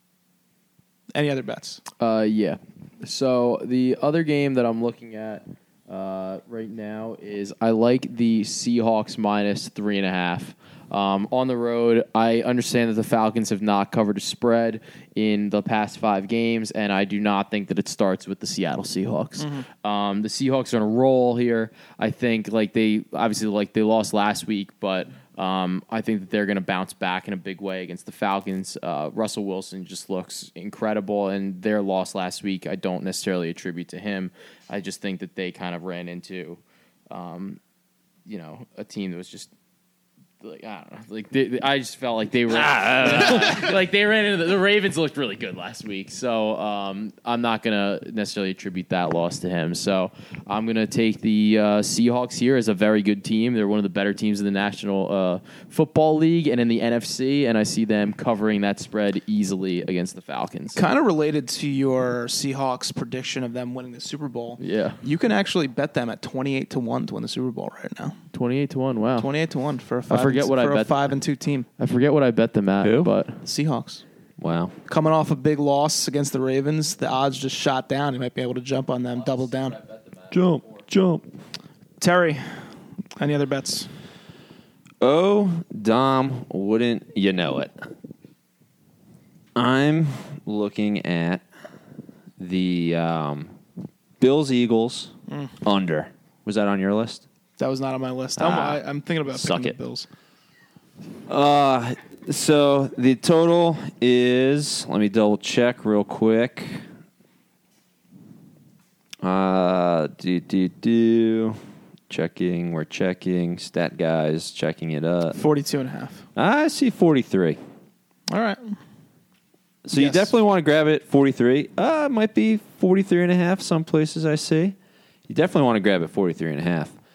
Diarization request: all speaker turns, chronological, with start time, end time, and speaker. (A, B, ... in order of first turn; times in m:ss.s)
0:01.1-0:01.8 A
0:02.0-0:36.6 B
0:37.1-0:37.6 B
0:38.3-0:39.5 B
0:40.4-1:00.8 B
0:42.5-0:43.7 C
1:00.8-1:08.2 A
1:04.6-1:05.0 B
1:08.3-1:09.3 B
1:09.2-1:11.7 A
1:10.1-1:11.1 B
1:11.8-1:13.4 B
1:12.8-1:13.1 C
1:13.4-1:14.0 A
1:14.4-1:14.8 C
1:14.9-1:19.8 A
1:20.3-1:21.3 C
1:22.0-1:22.4 A
1:23.2-1:23.9 A
1:25.0-1:27.8 C
1:29.6-1:31.4 C
1:32.4-1:33.6 C
1:34.2-1:35.1 C
1:35.6-1:37.2 C
1:37.6-1:40.1 A
1:38.4-1:39.8 C
1:41.3-1:46.8 C
1:49.2-1:51.6 C
1:52.1-1:55.4 C
1:55.3-1:56.2 A
1:56.4-1:57.6 C
1:58.3-1:58.7 A
1:59.9-2:04.8 C
1:59.9-2:00.3 A
2:05.3-2:07.0 C